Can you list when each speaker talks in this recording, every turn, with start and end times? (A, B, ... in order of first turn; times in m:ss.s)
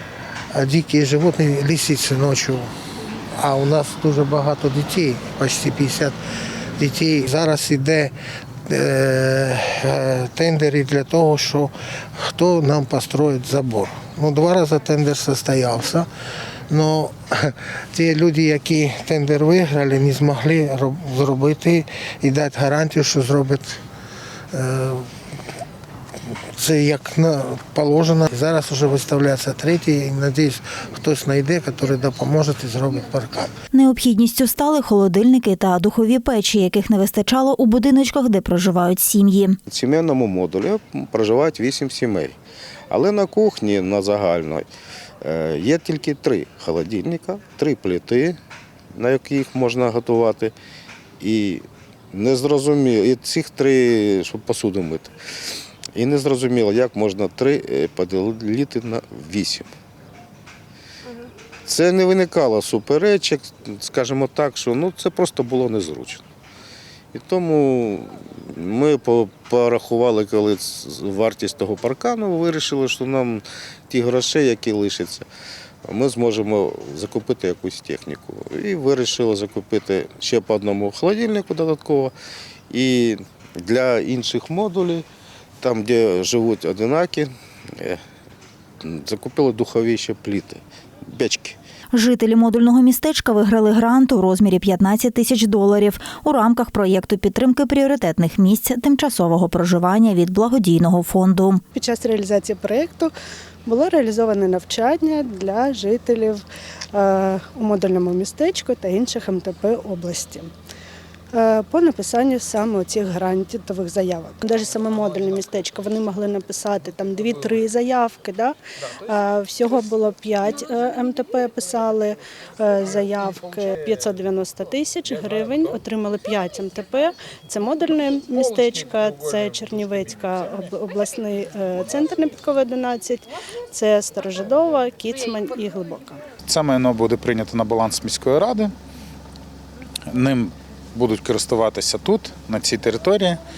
0:00.5-0:02.7 A
0:03.4-0:06.2 A
0:06.8-0:08.1 A
0:08.7-0:16.1 A
0:16.7-0:23.8 A
0:24.5-0:25.1 A
0:26.6-0:33.5 A
0:33.7-0:39.6 B
0:39.7-0:42.4 C
0:42.9-0:44.7 C
0:45.2-0:48.4 C
0:48.9-0:50.5 C
0:51.2-0:55.2 C
0:55.9-0:59.7 C
1:01.7-1:06.2 C
1:07.1-1:15.2 C
1:15.8-1:22.1 C
1:22.7-1:25.1 C
1:25.6-1:28.0 C
1:28.8-1:31.6 C
1:31.9-1:41.6 B
1:41.7-1:43.1 D
1:43.6-1:50.5 D
1:51.3-2:16.2 D
2:16.4-2:18.7 E
2:20.1-2:23.4 E